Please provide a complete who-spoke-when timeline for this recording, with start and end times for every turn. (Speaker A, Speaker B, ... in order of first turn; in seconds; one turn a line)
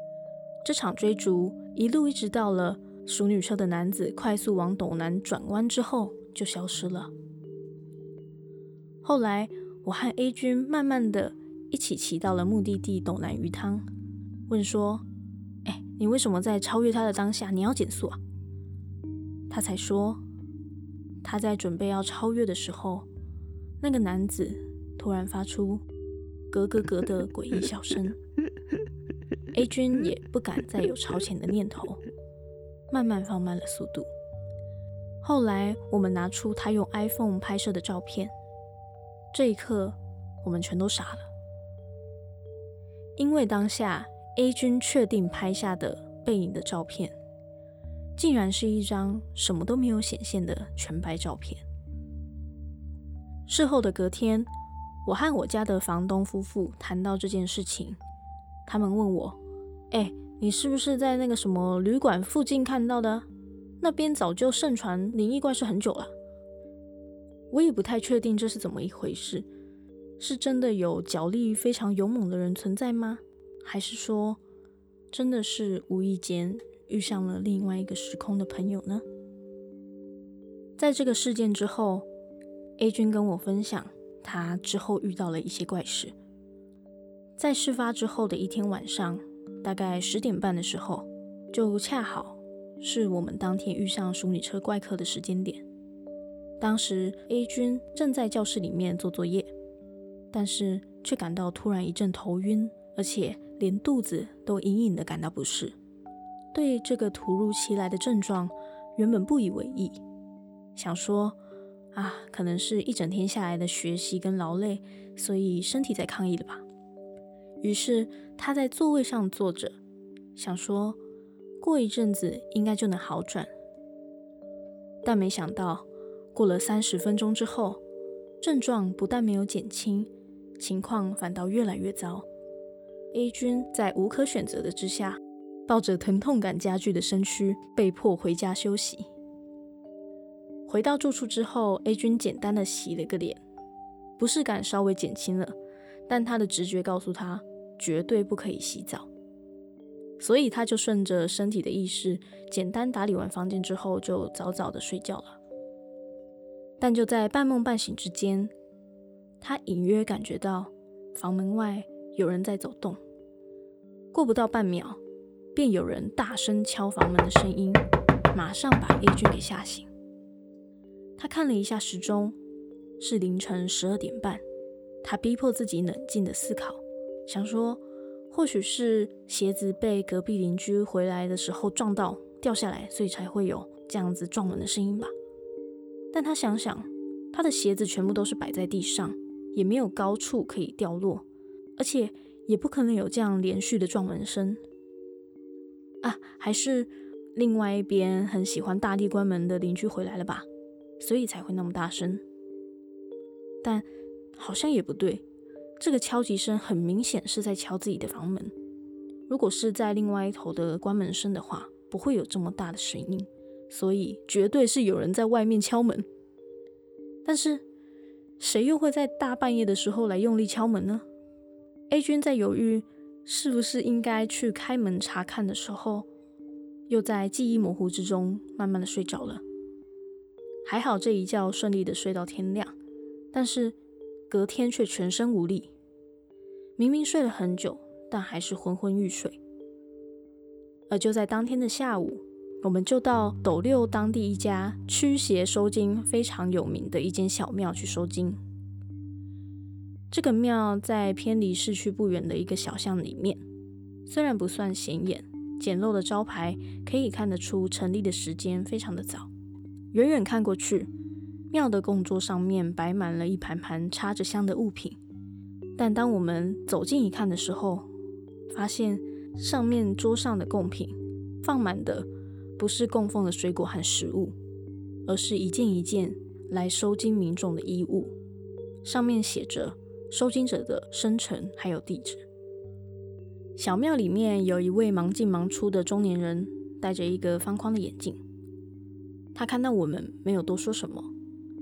Speaker A: 0.6-7.1
Speaker A: 9.0-13.8
Speaker A: 14.5-15.0
Speaker A: 15.7-18.2
Speaker A: 19.5-20.2
Speaker A: 21.2-23.1
Speaker A: 23.8-25.8
Speaker A: 26.5-28.2
Speaker A: 29.5-32.0
Speaker A: 32.9-34.1
Speaker A: 35.2-38.3
Speaker A: 39.3-41.2
Speaker A: 43.2-47.1
Speaker A: 48.1-51.6
Speaker A: 53.5-54.5
Speaker A: 55.0-58.0
Speaker A: 58.7-59.4
Speaker A: 59.9-63.2
Speaker A: 63.8-66.1
Speaker A: 67.5-69.5
Speaker A: 70.2-74.4
Speaker A: 75.1-79.0
Speaker A: 80.8-82.0
Speaker A: 82.8-86.1
Speaker A: 87.4-95.6
Speaker A: 96.6-99.5
Speaker A: 100.3-105.7
Speaker A: 106.5-110.0
Speaker A: 110.7-111.3
Speaker A: 111.9-116.6
Speaker A: 117.6-119.8
Speaker A: 120.3-121.0
Speaker A: 121.6-123.5
Speaker A: 125.0-127.8
Speaker A: 128.4-132.2
Speaker A: 133.1-139.1
Speaker A: 140.7-143.4
Speaker A: 144.2-145.5
Speaker A: 146.1-149.1
Speaker A: 150.2-155.4
Speaker A: 156.8-158.5
Speaker A: 159.4-163.0
Speaker A: 164.1-165.0
Speaker A: 165.5-167.8
Speaker A: 168.3-169.9
Speaker A: 171.2-172.3
Speaker A: 173.0-174.4
Speaker A: 175.0-185.1
Speaker A: 186.1-191.2
Speaker A: 191.8-194.6
Speaker A: 196.0-200.5
Speaker A: 201.0-202.2
Speaker A: 204.3-205.2
Speaker A: 205.8-208.5
Speaker A: 209.3-216.1
Speaker A: 217.2-217.6
Speaker A: 218.4-221.0
Speaker A: 221.9-226.1
Speaker A: 226.9-229.4
Speaker A: 230.6-232.8
Speaker A: 233.3-233.8
Speaker A: 234.3-235.7
Speaker A: 236.8-239.4
Speaker A: 240.9-248.4
Speaker A: 250.1-253.4
Speaker A: 254.1-259.3
Speaker A: 259.9-260.9
Speaker A: 261.5-265.0
Speaker A: 265.8-267.9
Speaker A: 268.5-272.1
Speaker A: 272.6-274.3
Speaker A: 275.1-278.1
Speaker A: 278.8-282.2
Speaker A: 283.6-288.2
Speaker A: 289.3-291.1